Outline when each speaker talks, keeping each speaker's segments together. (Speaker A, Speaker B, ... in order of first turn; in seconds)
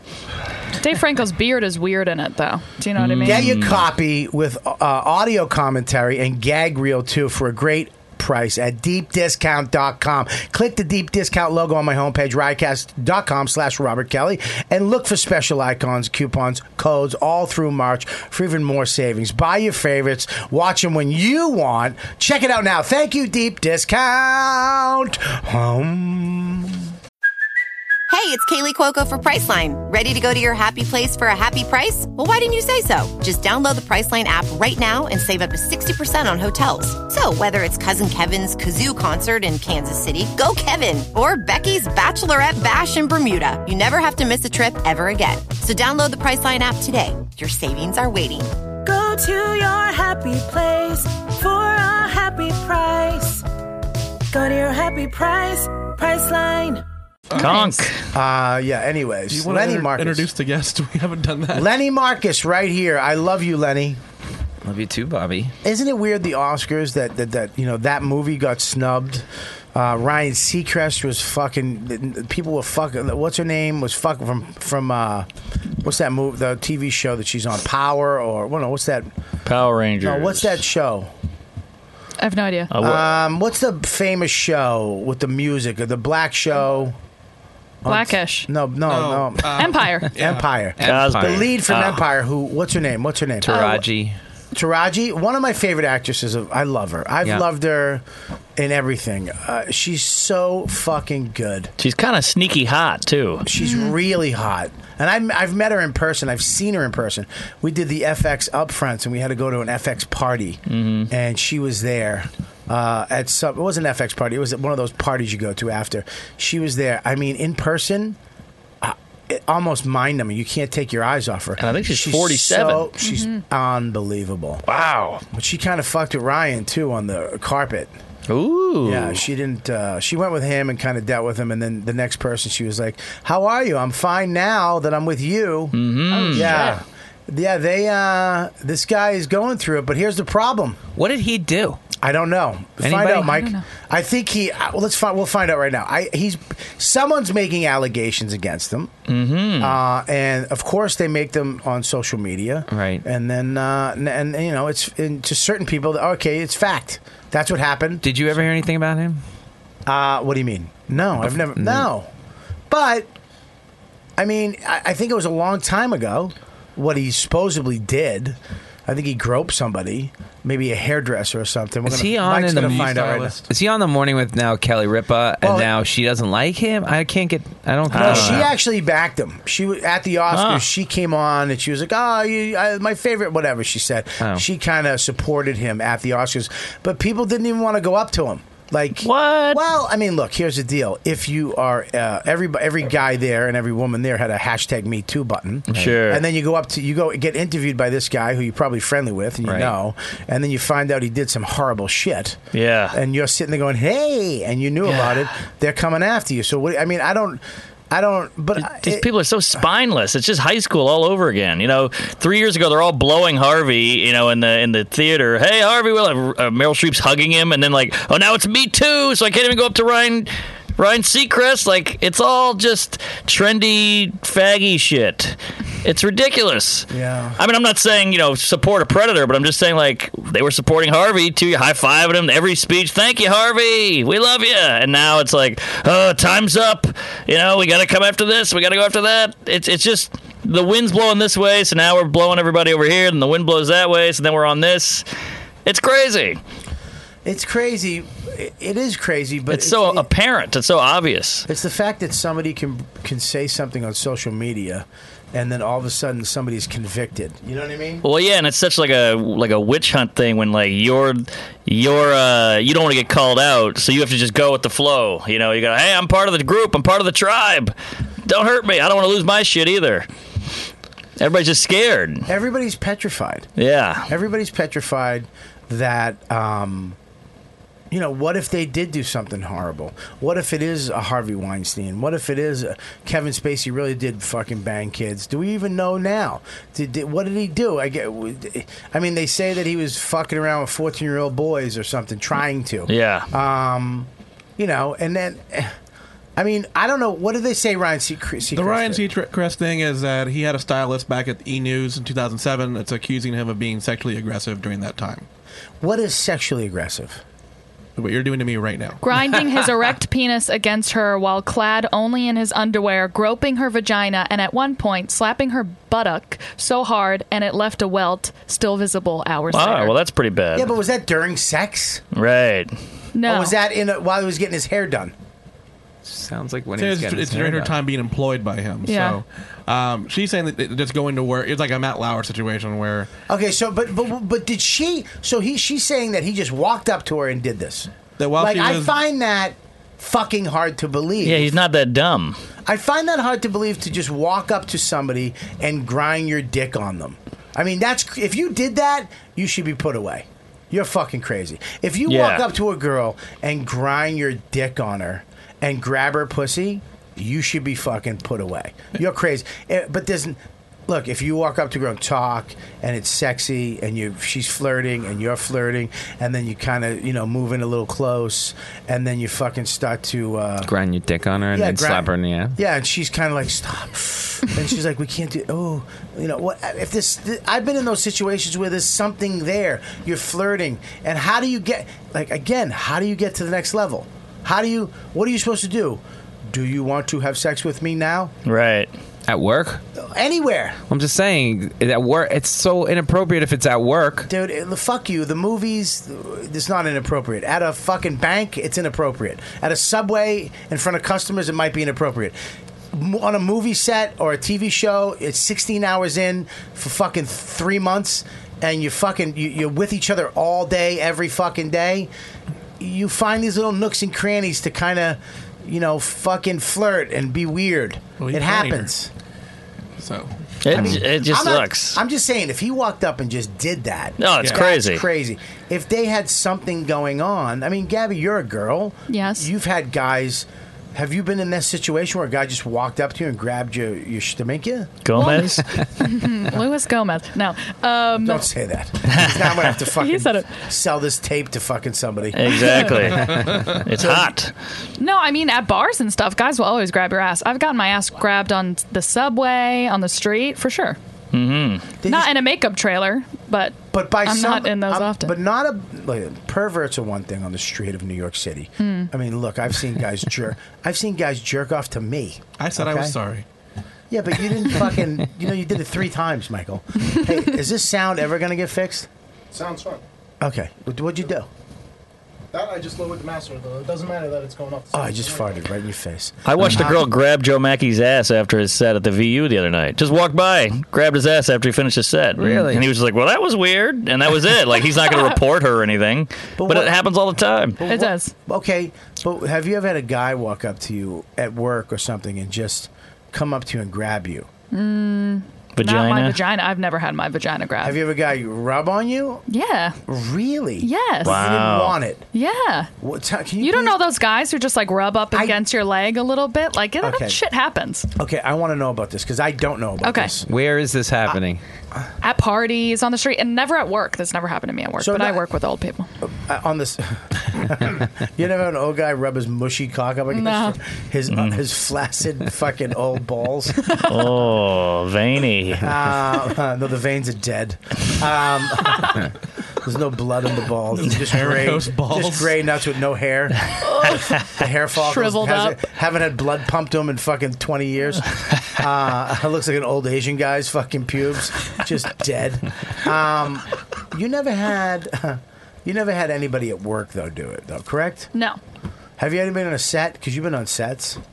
Speaker A: 0.8-3.6, 82.2-82.7, 87.9-88.5, 89.5-90.1, 93.5-93.8, 103.5-104.0, 123.0-123.4, 136.1-136.8, 143.2-143.6, 309.0-320.0, 323.1-323.6, 328.9-329.2, 429.1-429.5, 435.2-438.5, 439.9-440.5, 442.7-442.9, 445.0-451.0, 452.1-455.4, 458.8-459.1, 484.9-485.4, 487.9-488.3, 494.7-498.0, 499.5-500.0, 500.8-501.4, 502.3-502.9, 503.6-508.1, 510.0-510.4, 512.2-516.1, 520.3-520.8, 523.8-524.1, 533.8-534.3, 535.0-535.8, 548.3-548.6
Speaker B: 3.0-3.8, 57.4-58.0, 79.5-80.6, 82.7-83.2, 90.8-92.0, 101.8-103.5, 110.7-111.1, 121.6-122.9, 124.7-125.2, 128.3-129.2, 135.7-136.8, 149.1-149.8, 177.9-178.5, 180.3-180.7, 189.0-189.6, 195.7-196.2, 202.5-203.0, 204.8-205.3, 208.6-245.1, 245.7-246.4, 249.5-251.5, 258.0-267.7, 268.3-270.1, 271.2-272.3, 273.6-274.1, 292.9-293.3, 319.5-320.7, 322.1-322.7, 341.2-342.4, 352.1-352.4, 388.5-388.9, 420.6-422.0, 424.2-425.1, 435.1-435.6, 439.1-439.7, 442.4-444.5, 451.3-451.9, 476.5-487.8, 495.8-496.4, 501.2-502.0, 521.3-521.6, 524.1-526.0
Speaker C: 3.2-26.9, 58.1-60.3, 61.5-64.0, 65.6-75.3, 75.8-79.1, 80.0-81.1, 82.8-87.0, 87.8-93.8, 94.5-98.0, 98.6-101.7, 103.5-118.2, 118.8-124.6, 125.2-127.9, 128.8-135.7, 136.3-140.8, 142.0-148.9, 149.6-158.1, 159.9-162.1, 162.7-163.1, 164.2-173.4, 175.4-175.7, 177.9-202.4, 202.9-209.1, 226.9-227.4, 247.2-250.1, 251.5-258.1, 272.3-273.5, 274.1-277.0, 277.9-295.7, 296.4-299.0, 305.8-307.2, 320.6-322.0, 323.2-325.1, 333.3-341.5, 342.7-370.7, 371.5-388.3, 390.0-390.8, 394.3-402.4, 402.9-412.1, 412.8-419.1, 420.7-435.1, 438.1-444.3, 452.0-452.3, 453.9-463.2, 464.1-469.1, 470.4-471.5, 474.9-477.1, 486.6-486.9, 487.8-494.5, 497.8-499.4, 500.1-502.3, 503.0-504.0, 505.3-505.6, 507.0-507.4, 508.2-510.5, 515.0-515.4, 516.2-523.8, 525.8-529.1, 529.8-533.7, 534.5-548.3, 549.2-551.2
Speaker D: 28.1-48.5
Speaker E: 48.9-53.4, 54.3-56.8
Speaker F: 59.3-61.7, 88.9-90.5, 172.6-173.1, 298.5-305.3, 308.0-309.0, 326.8-333.1, 338.2-338.9, 418.2-418.9, 420.0-420.9, 462.6-463.4, 531.1-532.5
Speaker G: 64.6-65.5, 90.8-91.5, 93.4-94.2, 141.0-141.8, 142.8-143.3, 152.7-153.0, 158.0-159.2, 161.6-161.9, 171.9-178.5, 195.7-196.0, 199.5-199.7, 326.1-327.8, 370.6-372.6, 389.3-389.8, 390.9-394.3, 482.4-482.9, 510.5-511.6
Speaker H: 469.5-470.0, 472.5-475.6